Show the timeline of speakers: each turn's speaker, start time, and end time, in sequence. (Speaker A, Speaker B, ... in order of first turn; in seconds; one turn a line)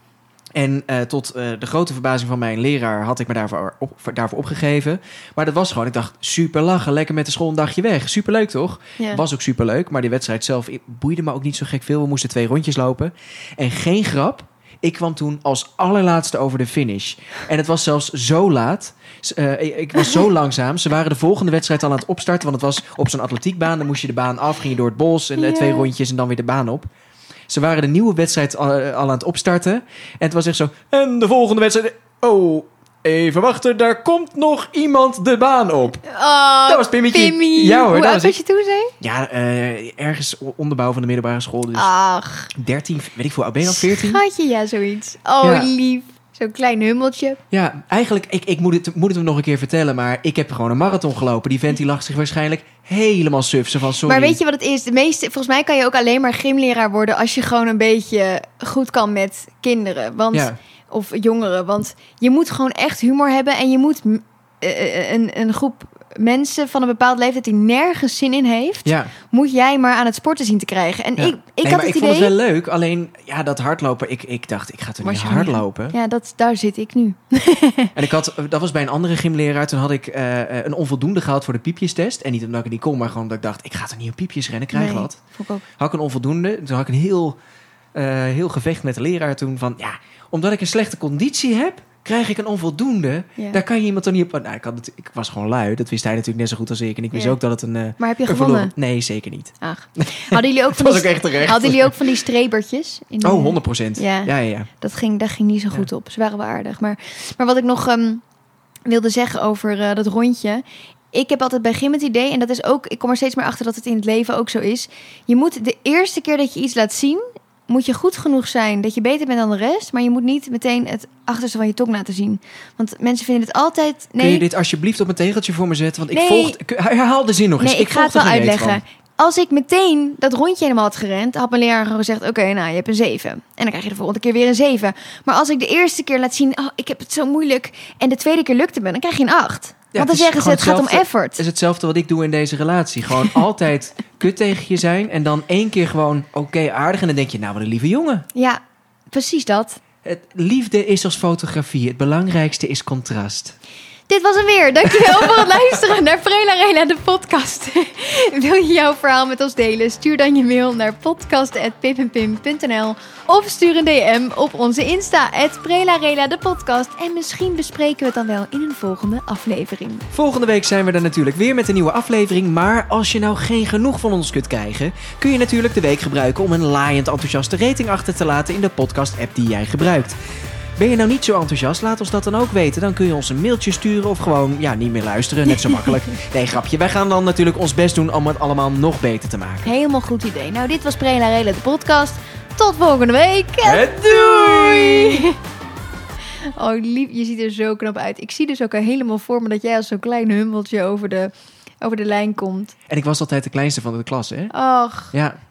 Speaker A: 0.6-26.9
Speaker B: 25.4-25.9
Speaker A: 27.5-36.0
Speaker B: 36.0-38.9
Speaker A: 36.7-38.4
Speaker A: 39.0-41.9
Speaker B: 41.7-42.5
Speaker A: 42.5-44.2
Speaker B: 43.6-47.4
Speaker A: 45.4-45.7
Speaker A: 47.5-54.4
Speaker B: 54.0-72.4
Speaker A: 68.8-69.1
Speaker A: 71.2-76.0
Speaker B: 75.0-77.9
Speaker A: 78.0-85.2
Speaker B: 84.7-85.7
Speaker A: 85.8-87.4
Speaker A: 88.0-102.1
Speaker B: 98.0-98.7
Speaker B: 99.6-108.2
Speaker A: 103.2-104.7
Speaker B: 108.9-124.5
Speaker A: 124.2-128.8
Speaker B: 126.1-126.6
Speaker B: 127.6-141.4
Speaker A: 139.9-148.3
Speaker B: 148.3-148.6
Speaker B: 149.1-149.8
Speaker A: 150.0-153.6
Speaker B: 154.1-170.1
Speaker A: 155.0-155.6
Speaker A: 170.1-180.2
Speaker A: 180.8-189.7
Speaker B: 189.7-195.4
Speaker A: 193.6-195.3
Speaker B: 196.6-202.7
Speaker A: 202.9-204.5
Speaker B: 204.5-205.1
Speaker A: 205.1-205.4